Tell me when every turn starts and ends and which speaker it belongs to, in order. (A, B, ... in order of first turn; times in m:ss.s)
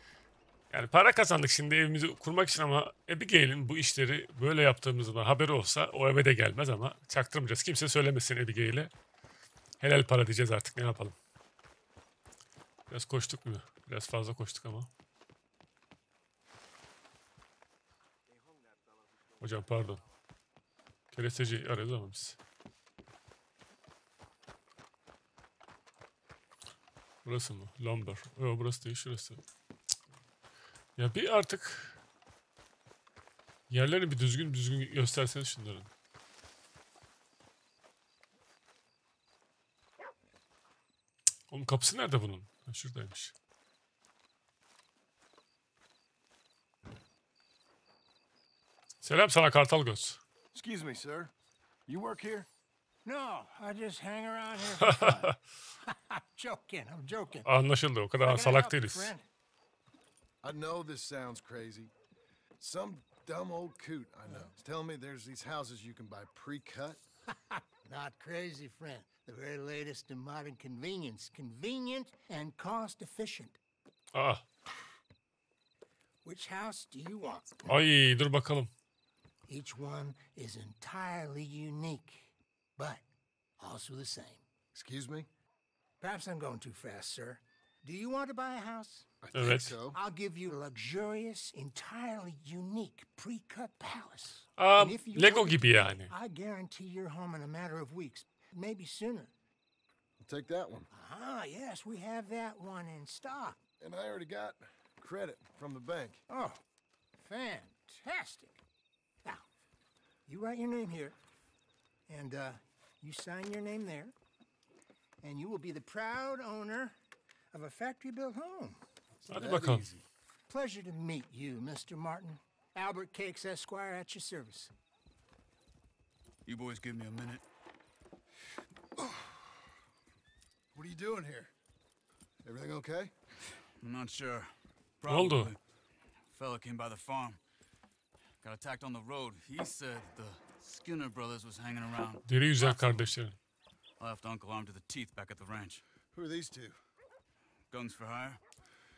0:00.7-0:08.9 A
0:09.8-0:11.1 A
0:12.9-0:14.9 A
0:19.4-0:20.0 A
0:21.1-0:22.4 A
0:27.2-0:29.4 A
0:31.0-0:32.0 A
0:33.7-0:35.9 A
0:41.5-0:43.3 A
0:49.0-0:50.2 A
0:50.5-0:51.3 B
0:51.9-0:52.5 B
0:53.0-0:55.3 C
0:55.8-0:57.5 C
0:57.5-0:59.1 A
0:58.2-0:59.3 C
1:00.4-1:01.9 B
1:02.6-1:07.0 B
1:07.8-1:13.6 C
1:14.1-1:14.4 A
1:16.2-1:17.8 C
1:17.7-1:18.7 A
1:19.5-1:23.0 C
1:23.6-1:24.4 C
1:24.7-1:25.3 B
1:26.0-1:29.1 C
1:29.2-1:30.0 B
1:29.3-1:29.8 A
1:29.9-1:39.3 C
1:34.6-1:36.1 A
1:40.2-1:40.9 B
1:40.9-1:43.6 C
1:43.8-1:46.2 B
1:46.3-1:46.6 C
1:47.2-1:48.6 C
1:50.2-1:51.2 C
1:52.1-1:54.1 C
1:55.2-1:57.0 C
1:57.5-1:58.8 C
1:59.3-1:59.9 A
1:59.3-2:00.1 B
2:00.5-2:04.7 C
2:06.4-2:07.4 D
2:09.0-2:09.4 B
2:10.7-2:11.5 B
2:12.4-2:13.1 B
2:13.8-2:15.6 D
2:15.1-2:15.5 A
2:16.3-2:17.4 D
2:18.4-2:23.1 D
2:22.2-2:23.4 A
2:24.0-2:25.8 D
2:26.1-2:26.8 B
2:27.7-2:28.4 D